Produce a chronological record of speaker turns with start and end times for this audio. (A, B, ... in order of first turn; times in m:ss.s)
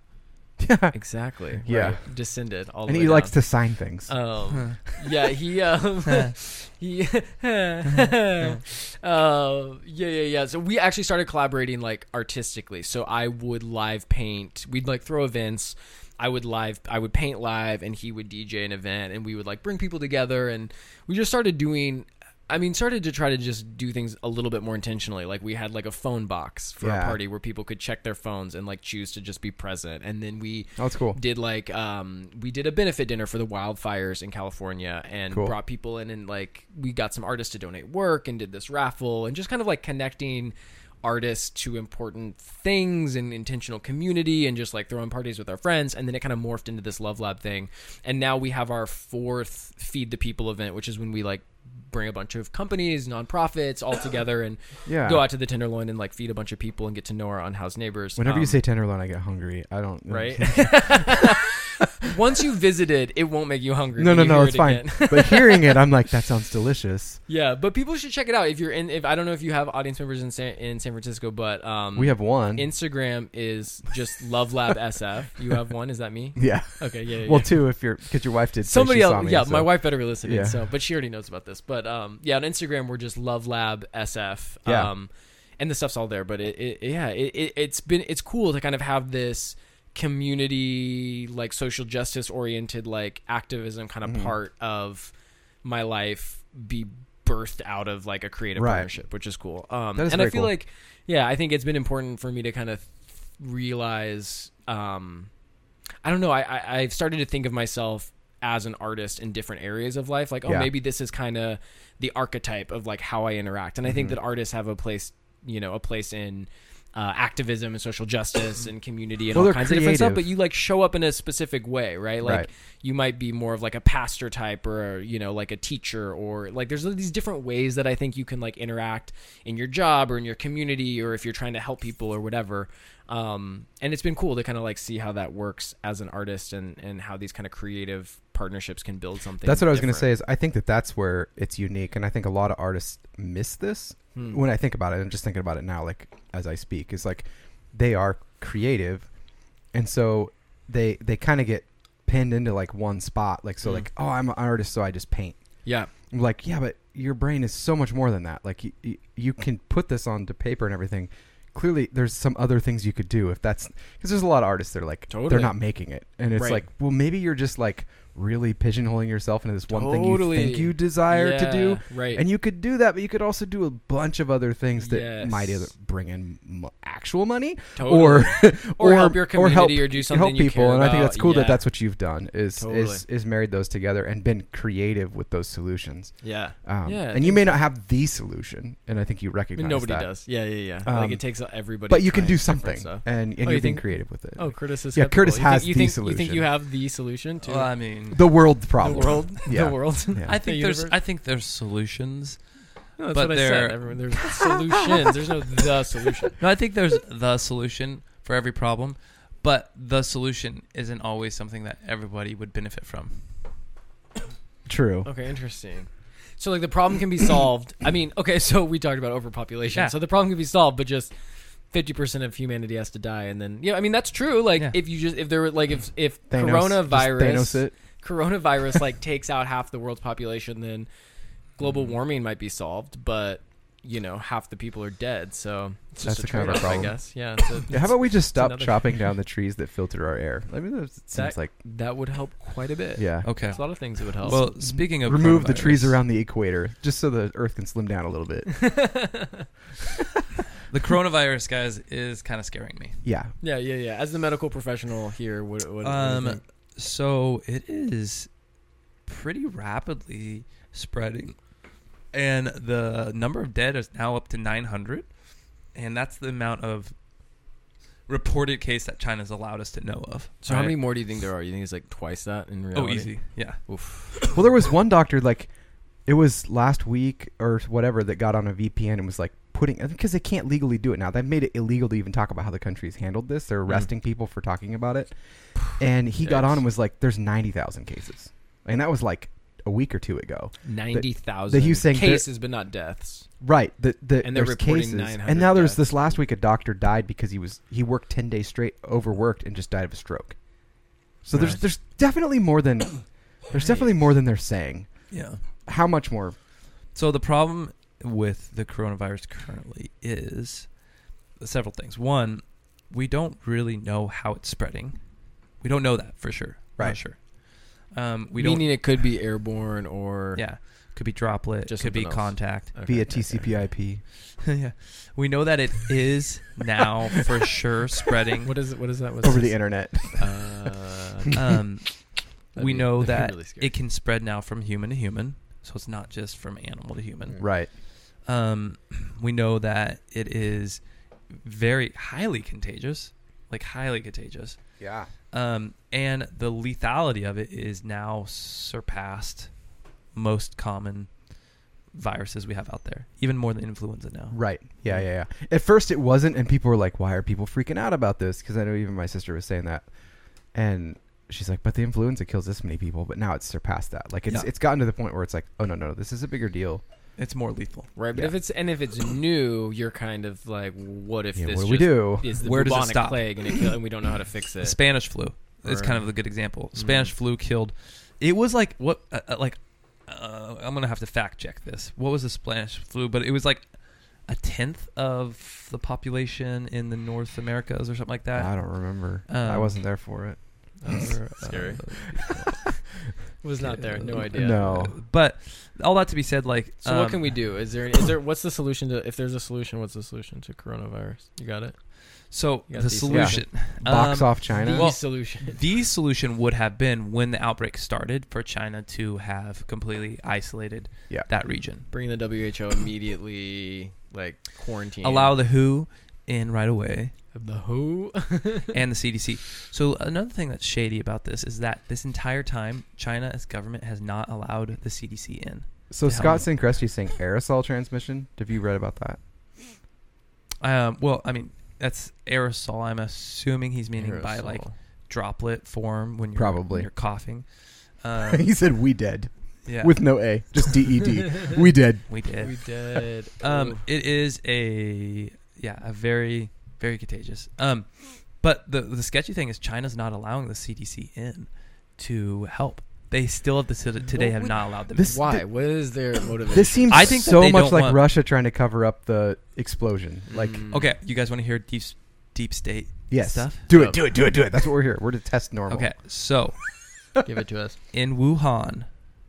0:00.6-0:01.0 A
0:00.9-0:03.4 B
0:01.6-0:02.0 A
0:02.9-0:04.1 A
0:04.1-0:58.6 B
0:06.1-0:06.3 C
0:26.8-0:27.2 A
0:30.8-0:31.2 A
0:35.3-0:35.6 A
0:54.9-0:55.2 A
0:58.2-1:01.3 A
1:00.1-1:05.8 B
1:04.0-1:07.2 A
1:07.3-1:17.6 B
1:12.0-1:12.7 A
1:16.4-1:20.6 A
1:18.6-1:35.1 B
1:34.1-1:34.3 A
1:35.6-1:45.3 B
1:38.6-1:38.9 A
1:40.0-1:40.5 A
1:46.0-2:20.1 B
1:50.5-1:50.7 A
1:53.9-1:54.2 A
1:59.3-2:00.2 A
2:02.2-2:02.5 A
2:19.4-2:29.1 A
2:24.2-2:24.4 B
2:29.7-2:35.4 A
2:35.6-2:35.9 B
2:36.1-3:10.1 A
2:45.1-2:45.6 B
2:46.4-2:46.6 B
2:49.7-2:52.2 B
2:54.8-2:55.7 B
2:57.8-3:01.6 B
3:02.6-3:03.0 B
3:06.2-3:07.6 B
3:09.6-3:17.7 B
3:10.8-3:11.2 A
3:11.9-3:16.5 A
3:17.4-3:19.3 C
3:18.1-3:20.4 A
3:18.8-3:21.0 B
3:20.2-3:22.5 C
3:23.0-3:26.4 B
3:23.1-3:24.3 C
3:26.4-3:33.2 C
3:34.7-3:35.1 A
3:35.0-3:41.1 B
3:41.7-3:50.9 B
3:46.3-3:47.8 A
3:51.6-3:59.0 B
3:56.0-3:57.0 A
3:57.7-4:01.5 A
4:01.1-4:04.4 B
4:03.0-4:03.4 A
4:03.2-4:06.0 C
4:04.2-4:08.7 A
4:08.5-4:09.5 B
4:10.6-4:13.0 C
4:13.0-4:13.3 A
4:13.4-4:16.4 B
4:15.8-4:18.3 C
4:19.1-4:21.4 C
4:22.1-4:25.1 C
4:25.7-4:26.9 C
4:28.1-4:30.8 C
4:30.4-4:34.3 B
4:32.7-4:34.4 C
4:34.3-4:35.5 A
4:36.1-4:45.2 A
4:45.7-4:52.3 A
4:46.2-4:46.6 B
4:50.6-4:53.3 B
4:53.4-5:00.4 A
4:54.2-4:56.2 B
5:01.2-5:04.9 A
5:01.3-5:01.6 B
5:03.5-5:03.9 B
5:05.1-5:05.4 C
5:05.7-5:06.4 A
5:06.9-5:10.7 C
5:11.4-5:15.0 C
5:15.6-5:17.2 C
5:17.8-5:18.9 C
5:18.4-5:20.4 B
5:20.4-5:22.7 C
5:21.7-5:23.6 B
5:22.9-5:24.0 A
5:24.4-5:28.5 C
5:28.4-5:29.6 B
5:29.2-5:30.7 A
5:30.1-5:31.4 B
5:31.3-5:32.0 C
5:32.5-5:37.4 C
5:32.6-5:33.7 B
5:37.4-5:37.7 A
5:38.3-5:40.8 C
5:41.4-5:44.6 C
5:44.8-5:45.1 A
5:45.3-5:49.5 C
5:50.1-5:51.1 C
5:51.9-5:54.4 C
5:54.3-5:59.9 A
6:00.5-6:06.8 A
6:07.2-6:07.9 C
6:08.0-6:14.8 B
6:11.4-6:12.3 A
6:12.4-6:13.6 C
6:14.6-6:23.6 C
6:15.6-6:16.0 B
6:16.8-6:17.1 B
6:24.3-6:29.8 C
6:28.4-6:31.1 A
6:30.8-6:32.3 B
6:30.9-6:32.6 C
6:33.4-6:34.6 B
6:33.6-6:37.5 C
6:34.3-6:35.0 A
6:36.8-6:41.8 B
6:42.3-6:51.9 C
6:42.7-6:43.5 B
6:43.1-6:44.9 A
6:44.6-6:45.6 B
6:51.9-6:55.3 B
6:55.0-6:57.1 C
6:57.3-6:58.8 B
6:58.7-7:06.5 C
7:05.9-7:09.2 A
7:10.6-7:17.5 C
7:14.0-7:14.7 B
7:16.4-7:16.9 A
7:18.0-7:18.5 C
7:18.2-7:22.1 A
7:19.7-7:20.0 C
7:22.1-7:35.3 C
7:22.4-7:23.8 B
7:34.1-7:37.2 B
7:34.9-7:35.4 A
7:36.5-7:40.6 A
7:36.9-7:38.0 C
7:40.3-7:40.9 B
7:40.7-7:43.7 C
7:43.1-7:45.9 A
7:43.7-7:44.0 B
7:45.7-7:46.6 C
7:47.2-7:47.8 B
7:47.9-7:48.9 C